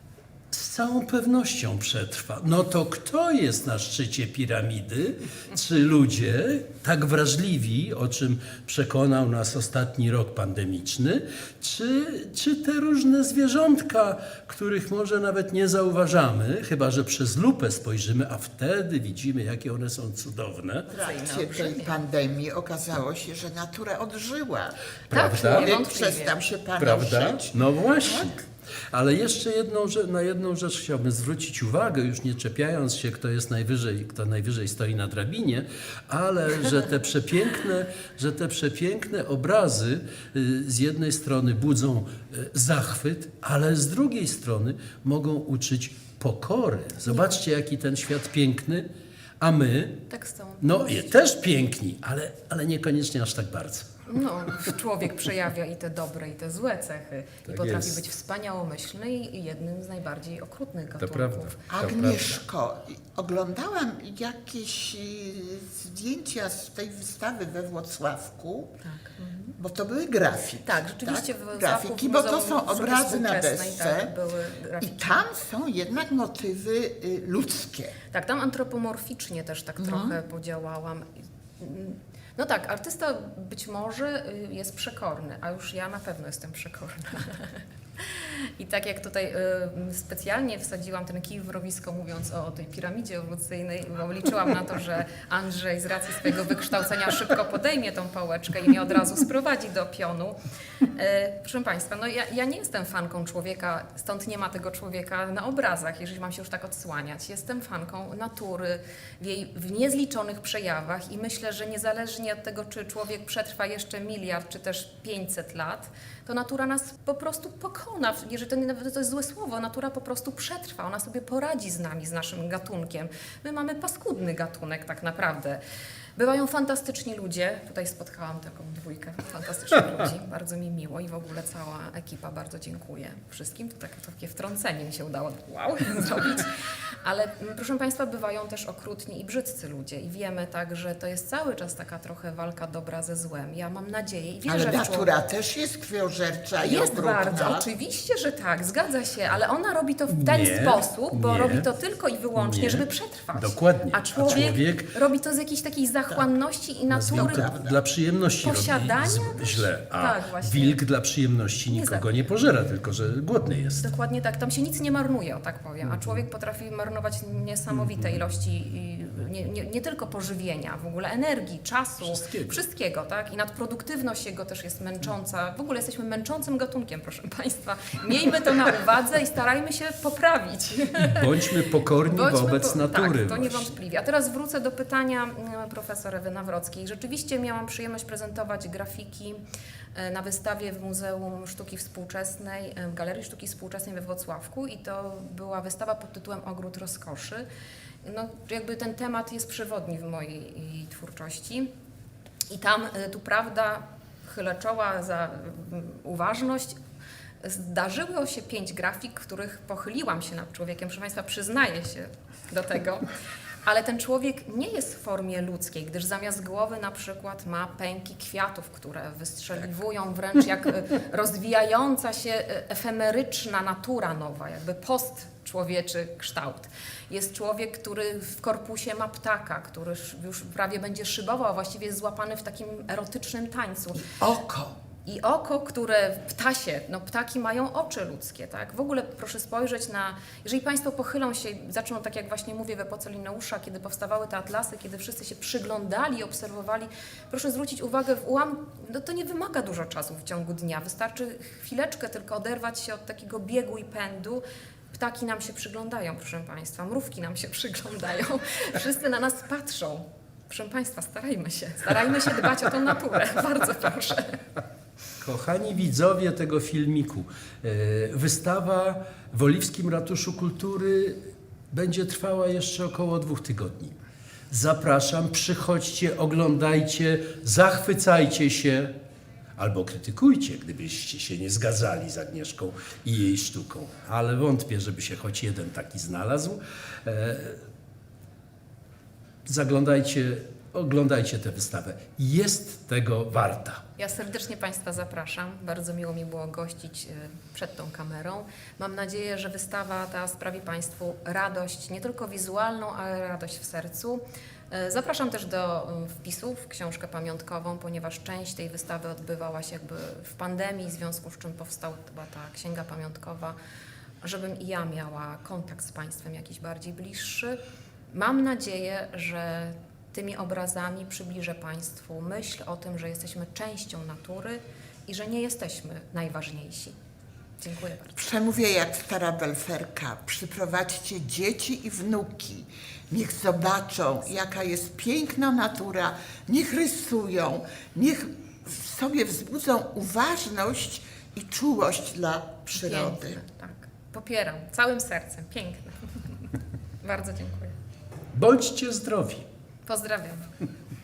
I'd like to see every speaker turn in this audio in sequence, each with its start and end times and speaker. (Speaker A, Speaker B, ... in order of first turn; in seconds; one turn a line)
Speaker A: 0.5-20.9
Speaker B: 20.9-22.0
Speaker C: 20.9-28.3
Speaker A: 25.1-25.7
Speaker B: 25.1-26.4
Speaker A: 26.8-48.9
Speaker A: 49.4-50.0
Speaker B: 50.1-51.3
Speaker A: 50.6-53.9
Speaker B: 54.1-61.6
Speaker A: 57.5-58.0
Speaker A: 61.0-62.4
Speaker C: 61.7-68.8
Speaker B: 68.8-69.6
Speaker C: 69.6-74.1
Speaker B: 70.6-75.2
Speaker C: 74.8-77.9
Speaker B: 78.1-81.1
Speaker C: 79.8-80.2
Speaker B: 81.6-100.3
Speaker B: 100.9-125.6
Speaker B: 126.2-136.5
Speaker B: 137.0-145.1
Speaker C: 144.4-147.7
Speaker B: 146.6-157.5
Speaker A: 150.1-151.7
Speaker A: 152.3-154.9
Speaker A: 156.9-163.8
Speaker C: 157.1-157.8
Speaker B: 158.4-160.8
Speaker B: 161.7-162.1
Speaker B: 163.8-181.3
Speaker A: 165.9-166.2
Speaker A: 172.0-172.6
Speaker A: 181.0-183.7
Speaker B: 182.0-189.4
Speaker B: 189.9-197.4
Speaker B: 198.0-201.7
Speaker B: 202.5-206.7
Speaker B: 207.4-213.1
Speaker B: 213.6-234.1
Speaker C: 234.0-234.8
Speaker B: 235.0-264.4
Speaker A: 265.2-271.2
Speaker A: 271.7-274.0
Speaker A: 274.5-278.9
Speaker A: 279.6-287.6
Speaker A: 289.4-293.8
Speaker B: 294.0-313.6
Speaker B: 314.2-317.6
Speaker B: 318.1-326.9
Speaker B: 327.6-328.2
Speaker C: 328.1-343.4
Speaker B: 342.7-346.3
Speaker B: 347.0-347.7
Speaker A: 348.3-349.4
Speaker B: 349.9-350.5